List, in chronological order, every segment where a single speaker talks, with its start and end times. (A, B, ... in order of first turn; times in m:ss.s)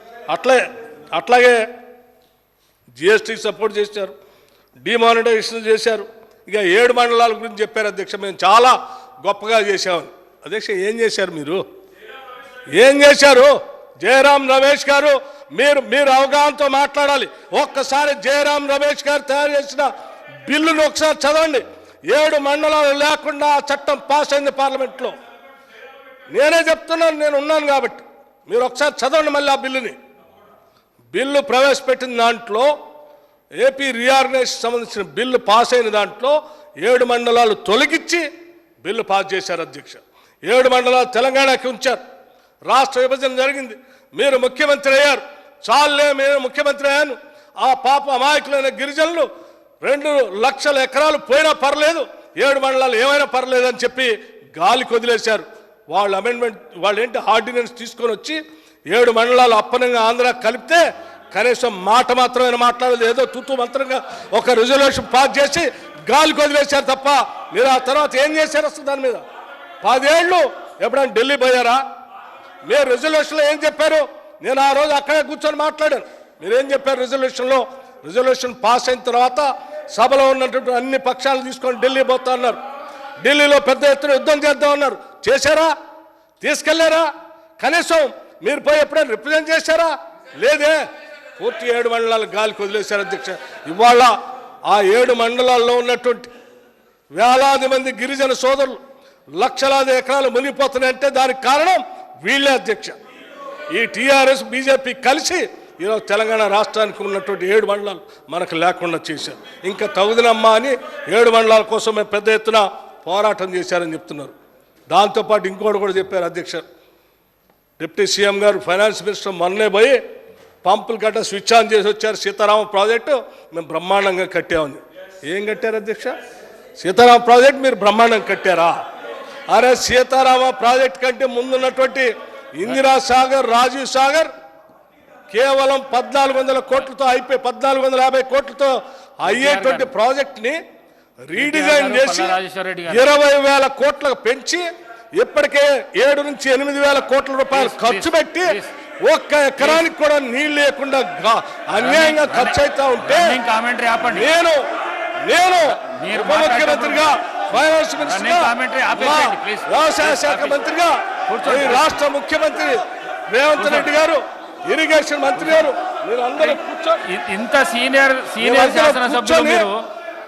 0:00.3-0:01.6 A
0:02.9-0:04.1 A
0:04.8-0:11.6 A
0:12.7-0:19.9 A
0:20.4-0:25.1 A
0:26.3-0:30.0 A
0:31.1-0:32.7 A
0:33.6-0:38.2 A
0:38.8-0:42.0 A
0:42.6-0:49.3 A
0:49.8-1:09.2 A
1:09.8-1:11.8 A
1:12.6-1:22.6 A
1:23.2-1:25.7 A
1:26.4-1:27.1 A
1:27.6-1:30.8 A
1:31.4-1:34.1 A
1:34.7-1:36.3 A
1:37.1-1:38.8 A
1:39.4-1:43.0 A
1:43.7-1:54.3 A
1:54.9-1:56.6 A
1:57.8-2:00.0 A
2:00.6-2:06.1 A
2:06.8-2:08.7 A
2:09.5-2:14.3 A
2:15.3-2:20.6 A
2:19.2-2:19.9 B
2:21.2-2:22.3 A
2:21.4-2:23.1 B
2:22.9-2:24.6 A
2:25.2-2:33.4 A
2:27.5-2:28.7 B
2:29.6-2:29.8 B
2:31.8-2:34.3 B
2:34.0-2:34.6 A
2:35.2-2:46.6 A
2:35.8-2:40.6 B
2:41.3-2:41.9 B
2:43.6-2:43.9 B
2:45.4-2:45.6 B
2:46.4-2:49.8 B
2:48.4-2:49.7 A